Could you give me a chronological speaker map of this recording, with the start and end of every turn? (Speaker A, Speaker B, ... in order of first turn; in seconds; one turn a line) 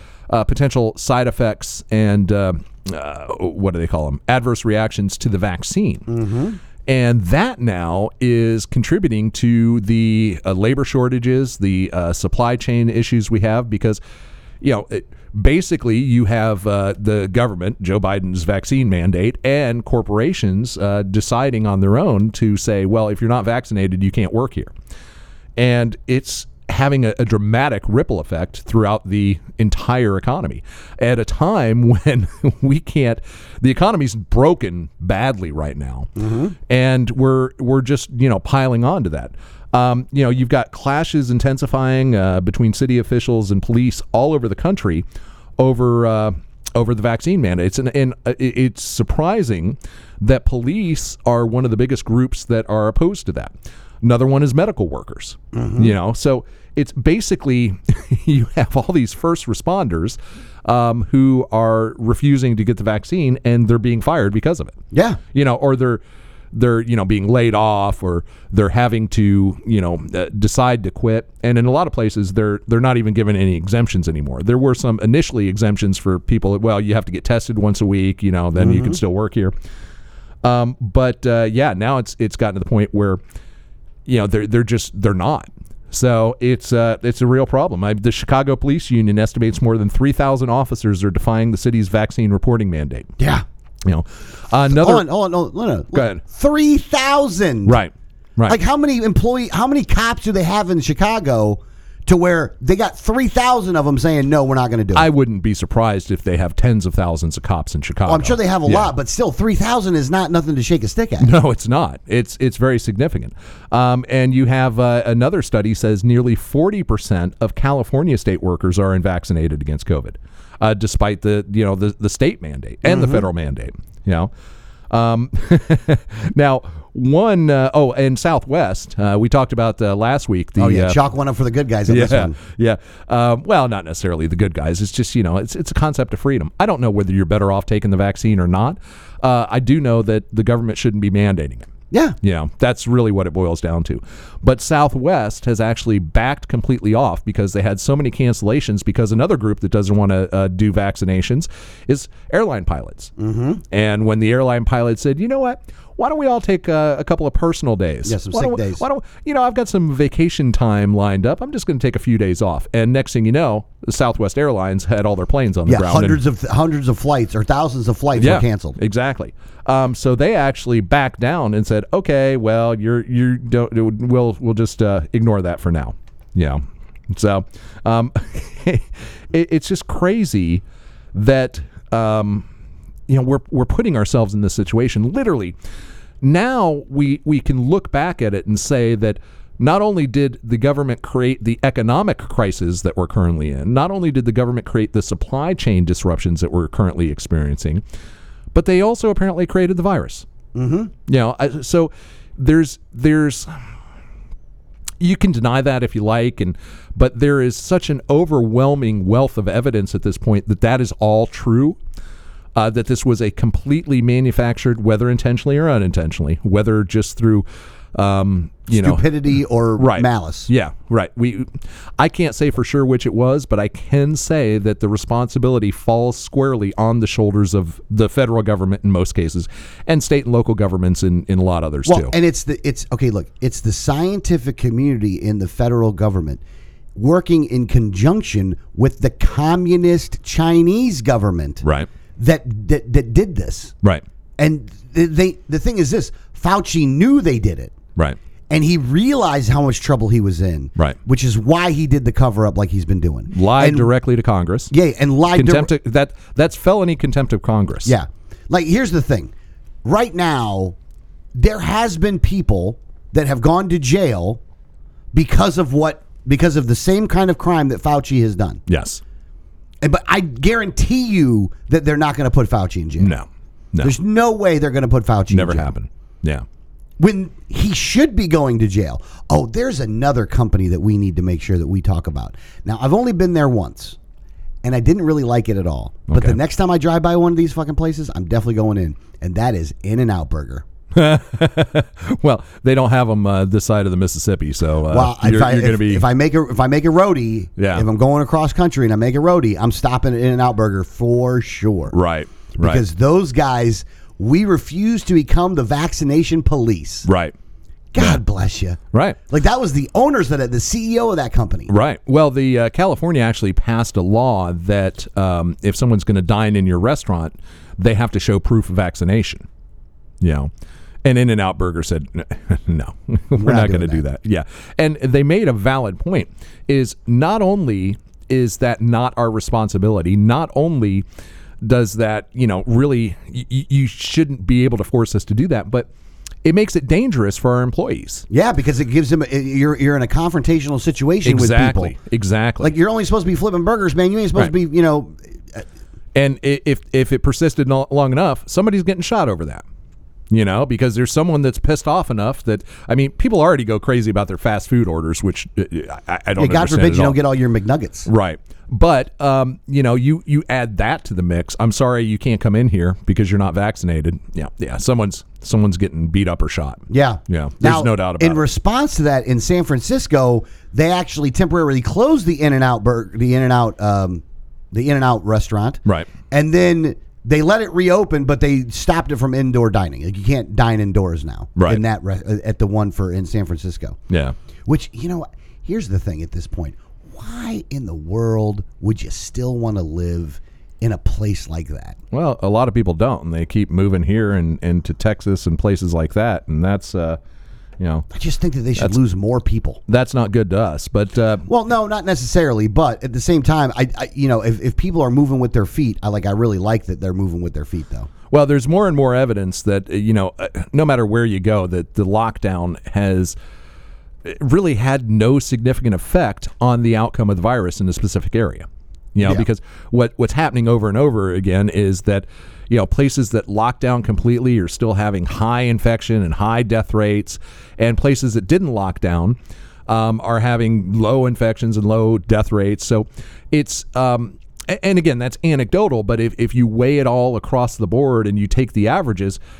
Speaker A: 0.3-6.1
Speaker B: 6.1-6.6
Speaker A: 6.9-14.0
Speaker A: 14.6-24.7
Speaker A: 25.6-36.1
Speaker B: 36.2-36.5
Speaker A: 36.7-45.0
Speaker A: 45.6-64.8
Speaker B: 55.5-55.9
Speaker B: 64.9-65.2
Speaker A: 65.3-79.5
Speaker B: 78.6-79.0
Speaker A: 80.4-83.2
Speaker A: 84.1-93.1
Speaker B: 93.2-93.5
Speaker A: 93.8-95.1
Speaker B: 94.7-97.8
Speaker A: 95.9-96.2
Speaker A: 97.7-98.6
Speaker B: 98.5-105.1
Speaker A: 104.9-108.9
Speaker B: 108.1-111.3
Speaker A: 111.2-124.3
Speaker B: 122.9-123.2
Speaker A: 124.9-131.0
Speaker B: 130.6-132.3
Speaker A: 131.9-141.7
Speaker B: 141.9-142.2
Speaker A: 142.2-153.1
Speaker B: 153.2-153.6
Speaker A: 153.7-166.2
Speaker B: 158.1-158.8
Speaker B: 165.7-168.8
Speaker A: 168.2-180.6
Speaker A: 181.1-182.5
Speaker A: 183.1-185.6
Speaker A: 186.2-197.8
Speaker A: 198.5-200.3
Speaker B: 200.5-200.9
Speaker A: 201.1-203.5
Speaker A: 205.0-211.8
Speaker A: 212.6-219.0
Speaker B: 218.7-220.5
Speaker A: 219.8-232.1
Speaker B: 231.9-236.4
Speaker B: 237.0-241.6
Speaker A: 241.6-241.9
Speaker B: 242.2-243.7
Speaker B: 244.4-247.8
Speaker B: 248.5-253.9
Speaker A: 253.3-254.7
Speaker B: 254.7-255.7
Speaker A: 255.3-257.9
Speaker B: 257.9-259.3
Speaker B: 259.8-260.8
Speaker B: 261.4-264.4
Speaker B: 265.1-268.6
Speaker A: 268.7-269.0
Speaker B: 269.8-273.1
Speaker A: 273.0-273.9
Speaker B: 273.8-275.7
Speaker A: 275.3-276.4
Speaker B: 277.0-284.0
Speaker B: 284.6-290.6
Speaker A: 286.1-286.4
Speaker A: 290.9-296.1
Speaker B: 294.9-301.9
Speaker A: 297.6-297.9
Speaker A: 301.9-302.8
Speaker B: 302.6-307.1
Speaker A: 307.1-307.3
Speaker B: 307.9-311.7
Speaker A: 308.0-308.2
Speaker A: 308.9-309.2
Speaker A: 311.7-319.5
Speaker A: 320.2-320.5
Speaker A: 321.0-331.1
Speaker B: 323.3-324.0
Speaker A: 331.6-335.9
Speaker A: 336.4-338.3
Speaker B: 338.3-341.9
Speaker A: 341.2-342.8
Speaker B: 342.6-345.6
Speaker A: 346.1-349.6
Speaker A: 350.3-357.2
Speaker B: 356.4-358.1
Speaker A: 358.1-368.4
Speaker B: 366.9-384.0
Speaker A: 381.6-381.8
Speaker A: 384.1-384.4
Speaker B: 384.7-392.0
Speaker A: 392.1-397.2
Speaker A: 397.8-398.1
Speaker B: 398.1-399.8
Speaker A: 399.9-401.5
Speaker B: 401.5-408.1
Speaker A: 408.3-413.4
Speaker A: 414.2-439.4